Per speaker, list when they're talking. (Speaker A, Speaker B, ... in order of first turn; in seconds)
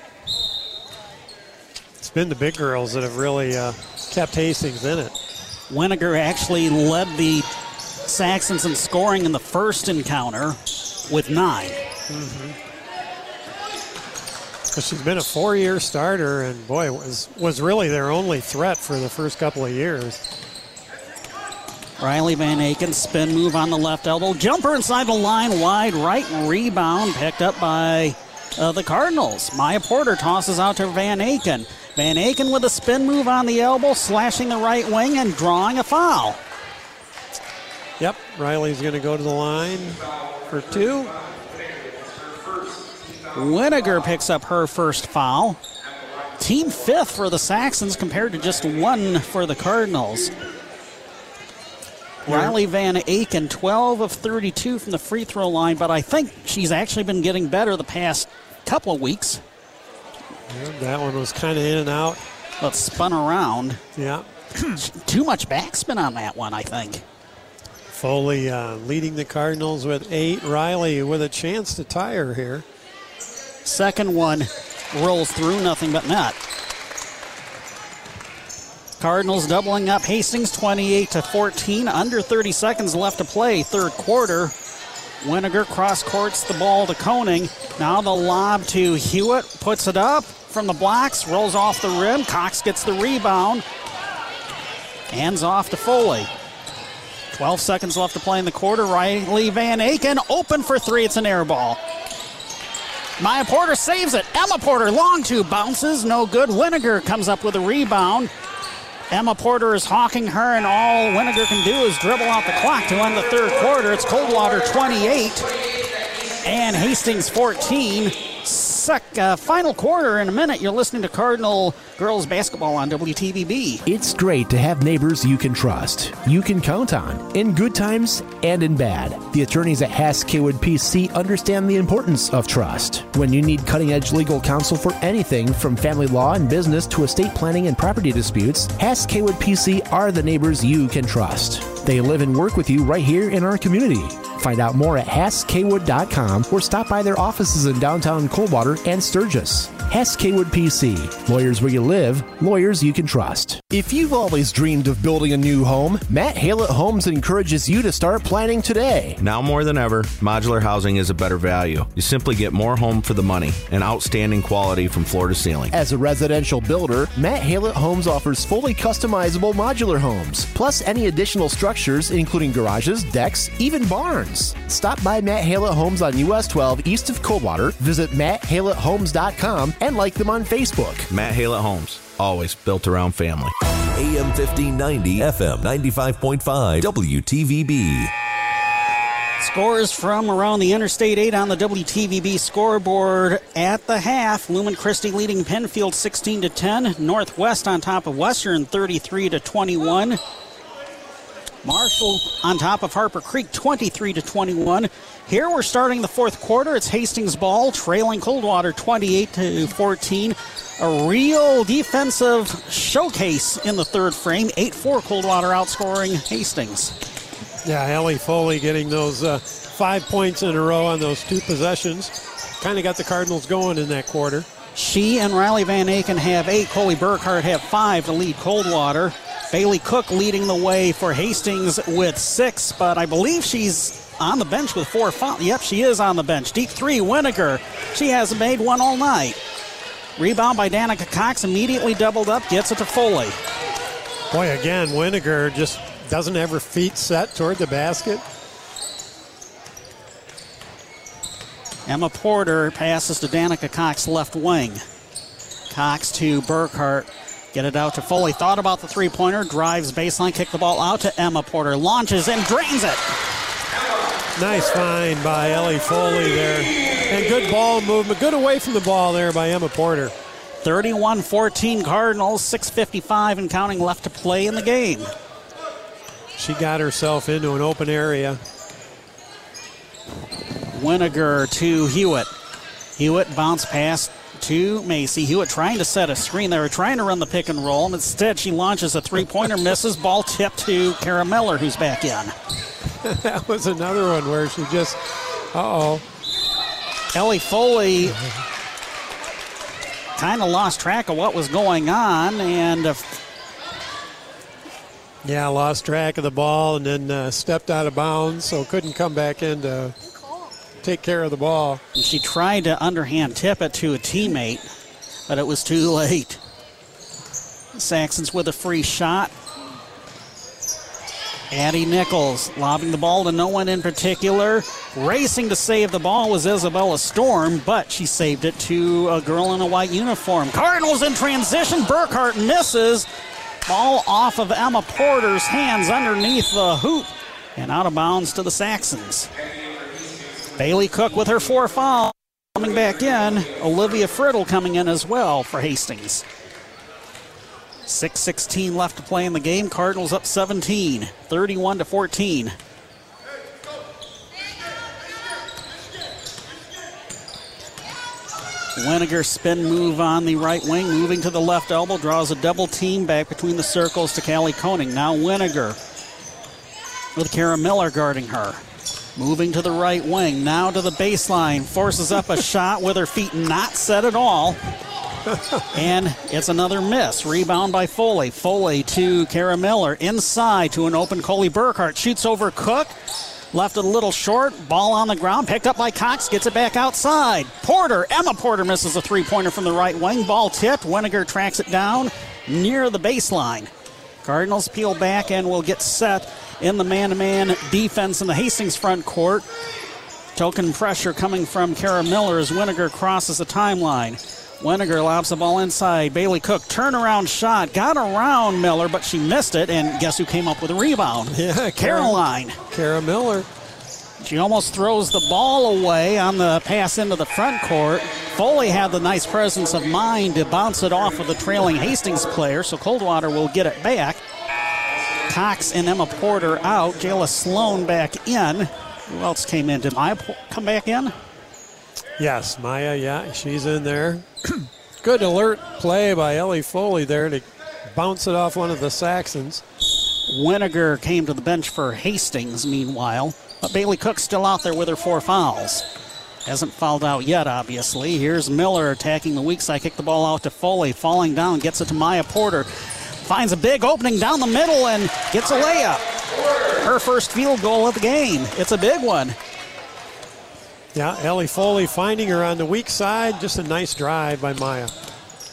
Speaker A: 2.0-5.2, 12.1-12.6, 14.7-20.2, 38.0-41.1, 52.3-52.6, 60.5-62.2, 64.0-64.3, 67.9-72.7, 217.7-224.5, 244.3-248.2, 264.4-270.1, 276.4-278.4, 293.0-295.0, 295.5-296.0, 305.2-309.9, 310.8-311.8, 375.3-375.6, 411.3-413.5, 432.2-439.6, 460.9-464.9
Speaker B: 5.7-7.5, 8.1-11.8, 22.0-36.4, 43.4-45.6, 46.4-50.3, 52.3-59.4, 62.6-63.8, 64.8-67.0, 73.7-76.4, 79.0-84.5, 85.2-93.6, 95.1-96.3, 97.3-101.8, 103.2-108.3, 109.1-115.5, 116.4-123.8, 189.4-200.2, 201.7-216.9, 224.8-239.4, 240.2-243.4, 251.9-254.8, 255.7-263.1, 270.6-275.1, 280.7-282.3, 283.0-292.3, 297.1-298.2, 300.2-303.2, 312.0-314.7, 315.3-316.4, 317.8-319.3, 321.5-333.1, 333.7-339.3, 340.6-346.3, 347.9-352.5, 358.8-365.8, 367.2-368.6, 369.2-374.6, 375.7-382.9, 383.5-393.7, 394.2-399.5, 400.4-412.6, 414.2-424.2, 425.3-431.1, 440.3-445.9, 446.5-456.1, 456.8-459.4
Speaker C: 123.9-159.2, 165.7-181.1
Speaker D: 159.2-165.7, 181.1-183.5
Speaker E: 184.0-188.1